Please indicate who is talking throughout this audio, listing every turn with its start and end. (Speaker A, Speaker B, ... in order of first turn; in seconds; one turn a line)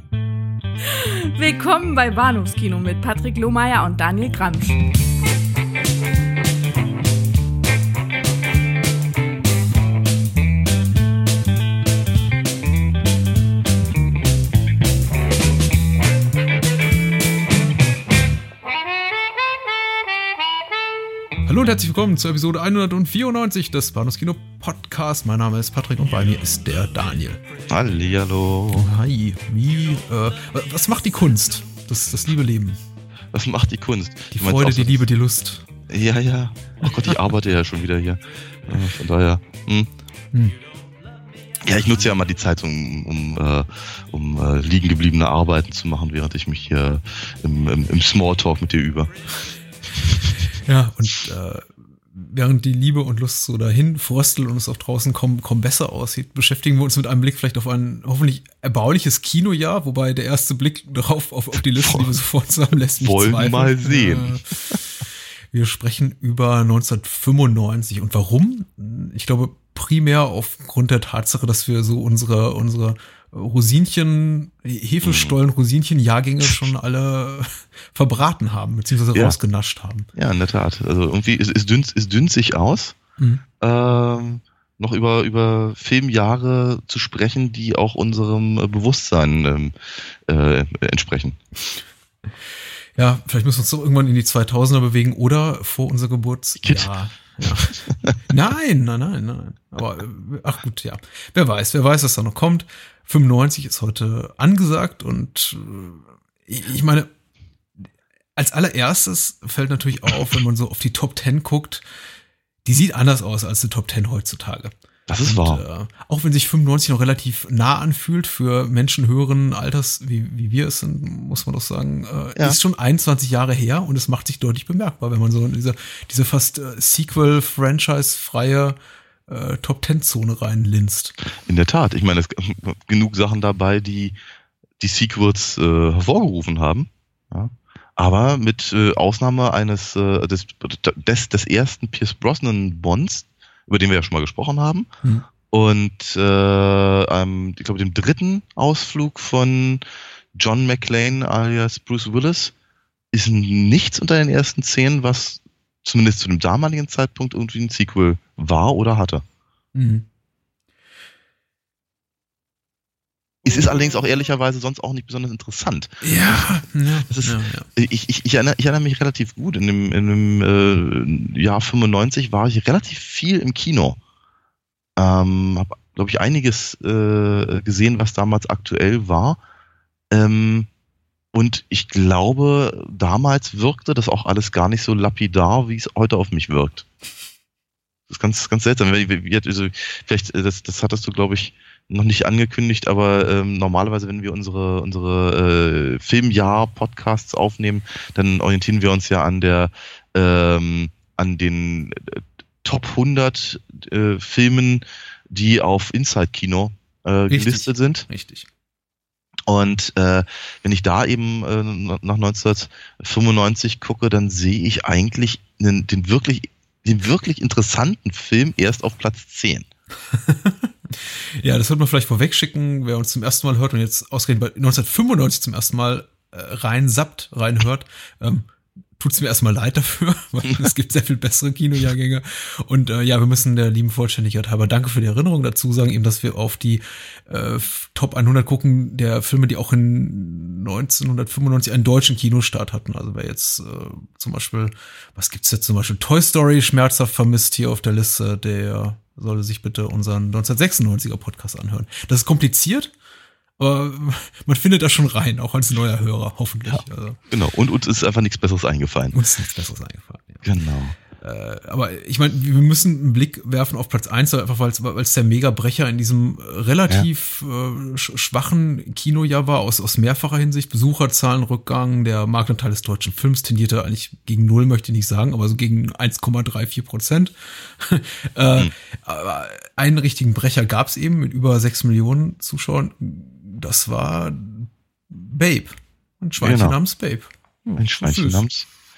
Speaker A: 0.8-4.8
Speaker B: 21.5-27.4
Speaker C: 27.7-29.0
Speaker B: 28.8-32.8
Speaker C: 33.3-35.1
Speaker B: 34.3-35.7
Speaker C: 35.9-39.9
Speaker C: 41.6-49.1
Speaker B: 50.6-64.8
Speaker C: 61.8-62.1
Speaker C: 63.0-64.8
Speaker B: 65.5-80.1
Speaker C: 75.0-75.3
Speaker C: 80.2-83.0
Speaker C: 83.6-89.7
Speaker C: 90.3-91.4
Speaker B: 93.0-107.1
Speaker C: 96.6-96.9
Speaker C: 97.5-98.2
Speaker B: 108.4-111.8
Speaker B: 112.7-114.7
Speaker C: 115.1-115.6
Speaker B: 115.2-131.2
Speaker C: 131.4-134.2
Speaker C: 134.8-144.9
Speaker C: 145.5-149.8
Speaker C: 150.3-152.5
Speaker C: 153.1-159.2
Speaker B: 159.8-160.1
Speaker C: 163.4-166.5
Speaker B: 166.0-167.7
Speaker C: 167.1-174.0
Speaker C: 175.0-179.4
Speaker C: 180.1-180.7
Speaker C: 181.3-186.9
Speaker C: 188.1-208.0
Speaker B: 207.3-208.5
Speaker C: 209.5-219.7
Speaker B: 220.1-252.9
Speaker B: 253.6-257.2
Speaker C: 256.7-259.2
Speaker B: 259.1-260.4
Speaker C: 260.4-261.0
Speaker B: 261.2-288.5
Speaker C: 286.4-286.8
Speaker C: 287.8-288.7